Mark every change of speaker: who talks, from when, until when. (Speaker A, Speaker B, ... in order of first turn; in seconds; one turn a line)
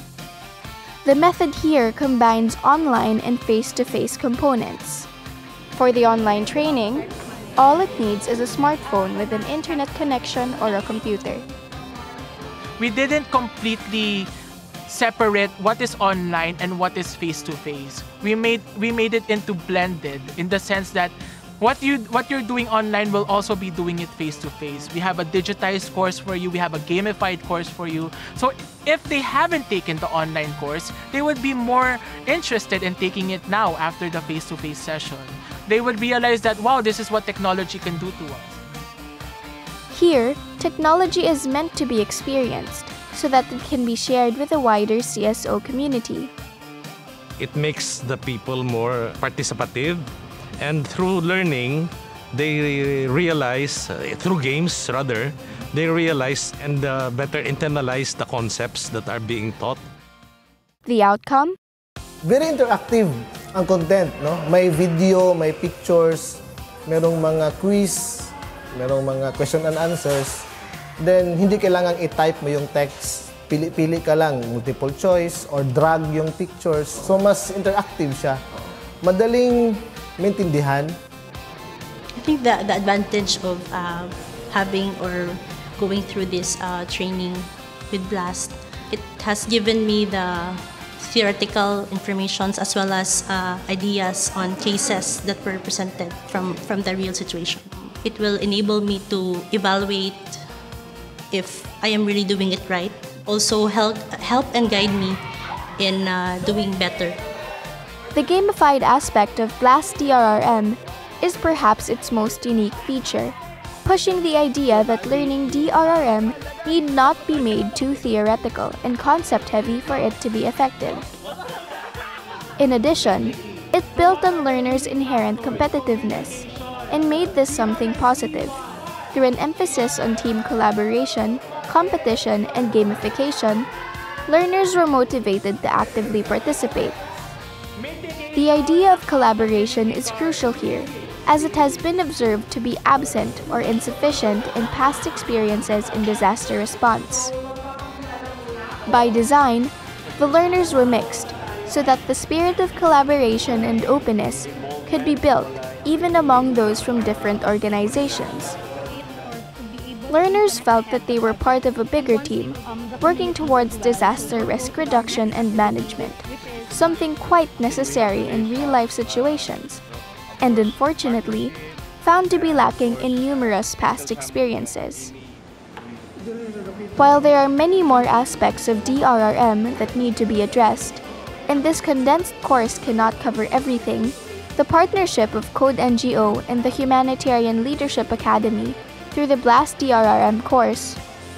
Speaker A: 1.0-5.1
Speaker A: 5.7-11.4
Speaker B: 12.8-14.3
Speaker B: 14.9-38.6
Speaker A: 39.9-46.3
Speaker C: 47.4-50.0
Speaker C: 50.6-59.8
Speaker A: 60.8-61.6
Speaker D: 62.2-70.5
Speaker D: 71.0-78.4
Speaker D: 79.0-81.0
Speaker E: 82.2-100.4
Speaker E: 101.3-105.2
Speaker E: 105.8-107.1
Speaker A: 108.1-121.1
Speaker A: 122.6-128.6
Speaker A: 129.1-133.7
Speaker A: 134.2-137.0
Speaker A: 138.3-147.3
Speaker A: 148.9-158.6
Speaker A: 160.1-169.8
Speaker A: 170.4-175.1
Speaker A: 177.0-191.0